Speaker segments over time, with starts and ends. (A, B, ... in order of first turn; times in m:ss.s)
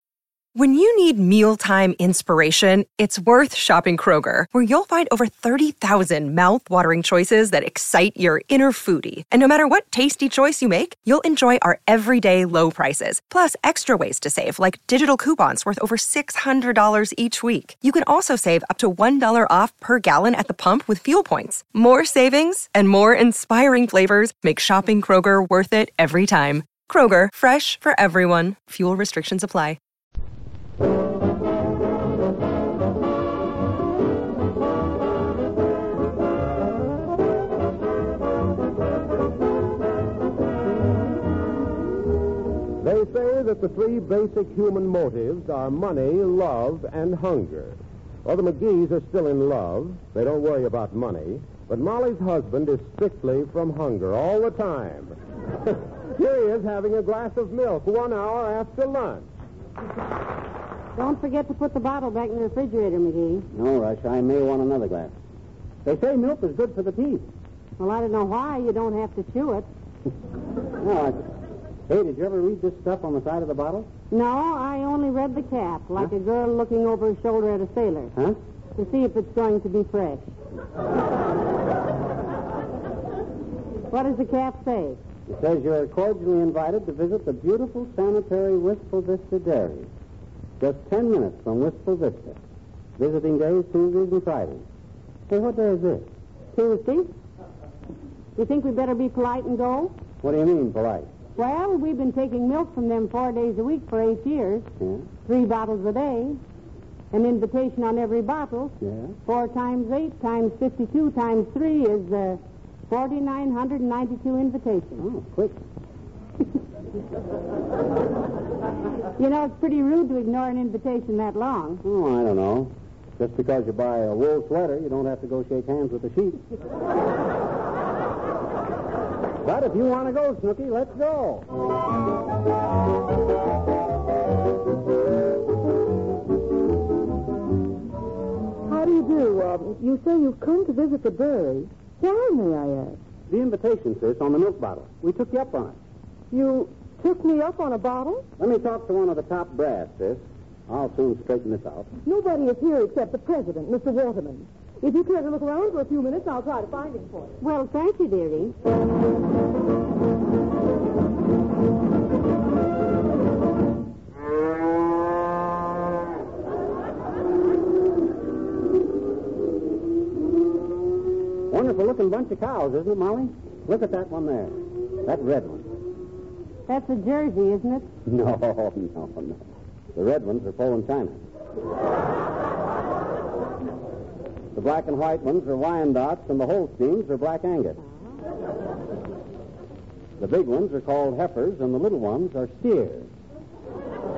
0:00.6-0:29.8 A
0:42.8-0:59.3 B
1:01.0-1:03.5 C
1:03.5-1:05.1 D
1:05.8-1:07.3 D
1:07.8-1:09.7 C
1:10.8-1:11.3 D
1:11.9-1:13.9 D
1:14.1-1:18.1 C
1:18.8-1:20.3 C
1:23.9-1:25.0 C
1:25.3-1:29.9 D
1:30.6-1:32.4 D
1:33.0-1:34.7 D
1:35.3-1:36.1 D
1:36.5-1:37.1 C
1:38.4-1:40.0 C
1:40.2-1:41.1 D
1:41.4-1:44.7 C
1:44.8-1:45.1 D
1:45.2-1:46.4 C
1:47.1-1:55.0 C
1:48.8-1:49.2 D
1:55.0-1:55.6 D
1:59.2-2:01.8 C
2:01.8-2:06.4 D
2:09.4-2:11.5 D
2:18.7-2:23.0 E
2:23.3-2:25.8 D
2:26.3-2:28.2 E
2:28.4-2:31.9 D
2:32.1-2:37.3 E
2:37.4-2:38.5 C
2:51.5-2:55.7 D
2:56.7-2:57.9 C
2:58.1-2:59.4 D
2:59.9-3:01.2 D
3:04.6-3:07.8 D
3:10.2-3:13.1 D